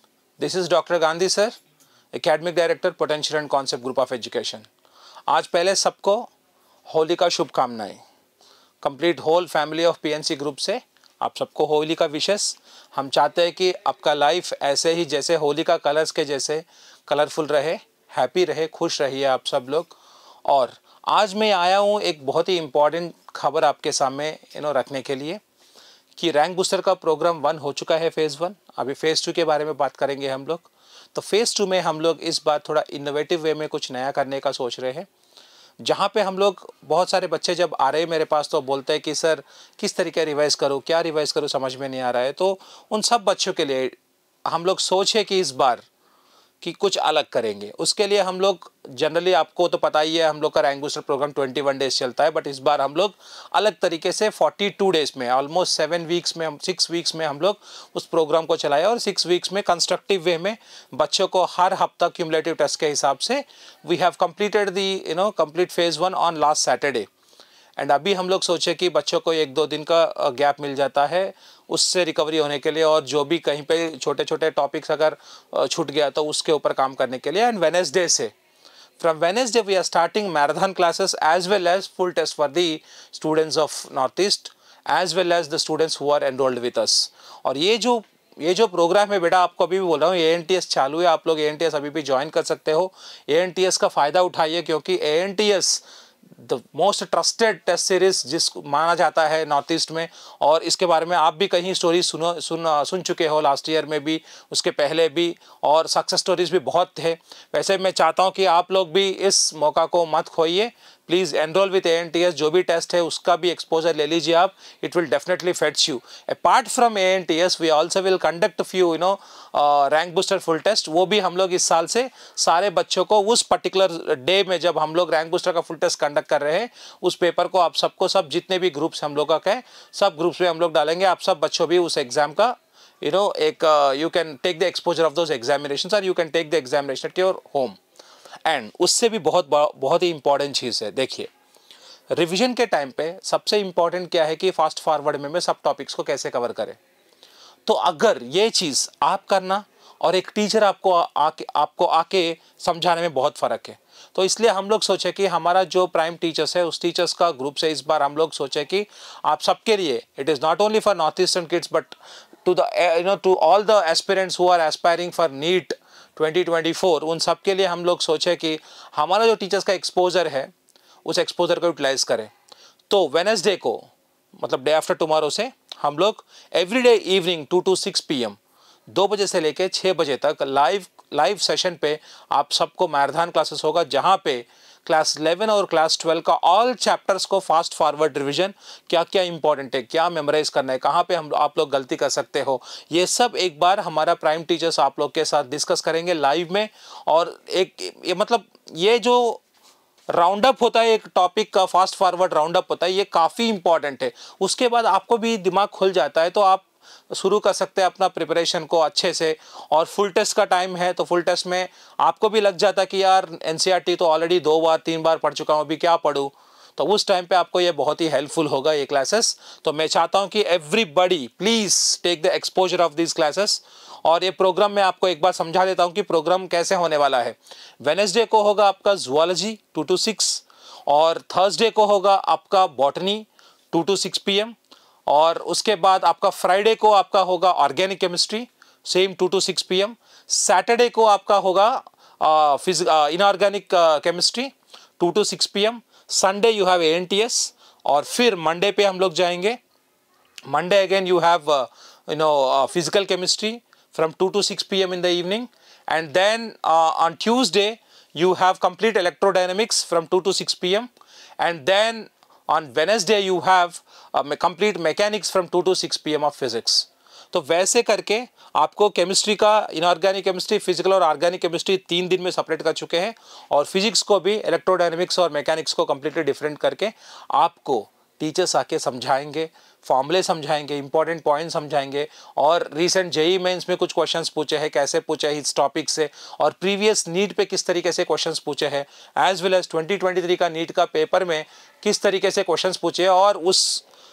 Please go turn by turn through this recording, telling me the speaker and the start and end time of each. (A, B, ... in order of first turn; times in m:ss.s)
0:00.4-0:01.5 A
0:02.1-0:04.7 A
0:05.3-0:06.3 A
0:06.9-0:08.0 A
0:08.8-0:25.4 A
0:26.2-0:35.1 A
0:35.8-0:45.8 A
0:46.6-1:07.1 A
1:07.8-1:18.3 A
1:19.0-1:35.8 A
1:36.4-2:17.8 A
2:18.4-2:21.3 A
2:22.1-2:26.8 A
2:27.6-2:50.5 A
2:51.0-2:52.3 A
2:52.9-2:58.4 A
2:58.9-3:19.4 A
3:20.1-3:54.5 A
3:55.1-4:09.6 A
4:10.5-4:53.8 A